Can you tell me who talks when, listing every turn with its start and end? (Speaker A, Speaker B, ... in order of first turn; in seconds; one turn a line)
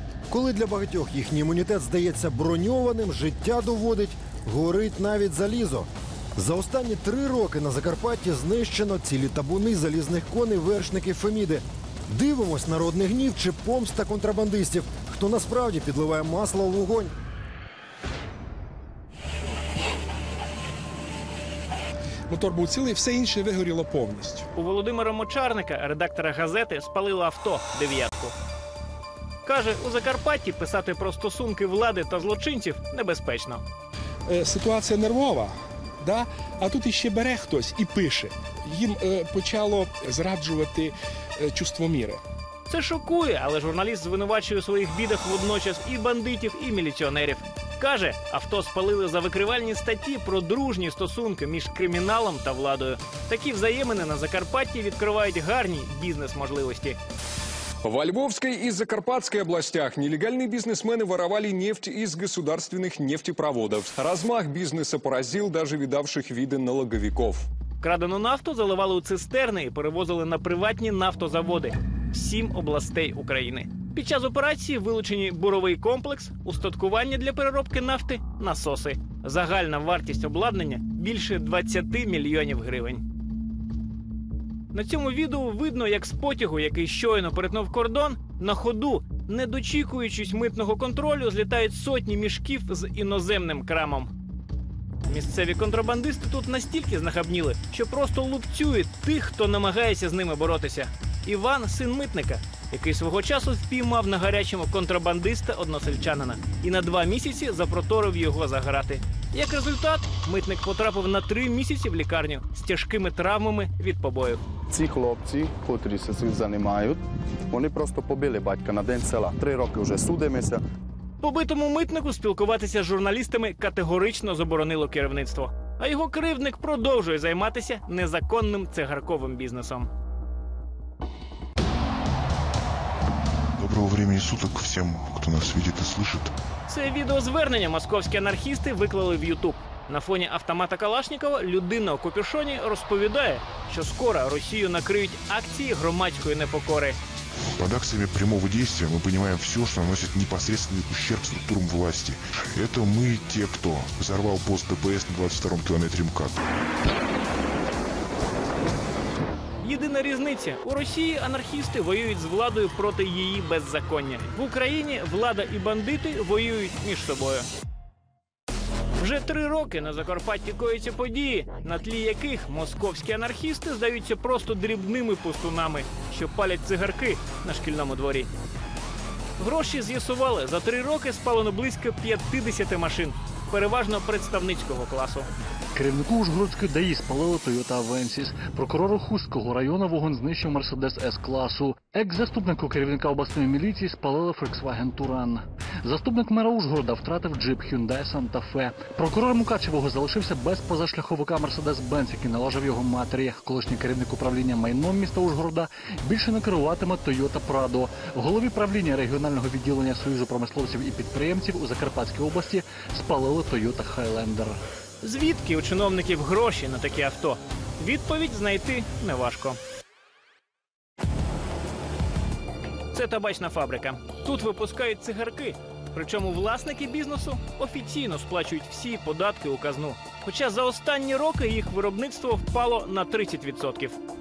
Speaker A: 0.3-17.1
Speaker B: 22.3-24.5
Speaker C: 24.5-28.4
Speaker C: 29.4-33.6
Speaker B: 34.3-42.2
Speaker C: 42.7-57.0
Speaker D: 57.8-67.5
Speaker C: 67.8-83.0
Speaker C: 84.7-94.1
Speaker C: 95.1-114.4
Speaker E: 114.7-120.6
Speaker C: 121.2-129.9
Speaker F: 133.6-136.3
Speaker C: 136.7-147.0
Speaker F: 147.6-156.4
Speaker C: 159.6-167.5
Speaker C: 169.0-178.3
Speaker C: 179.4-185.3
Speaker G: 185.8-214.6
Speaker C: 215.0-219.6
Speaker C: 222.9-234.0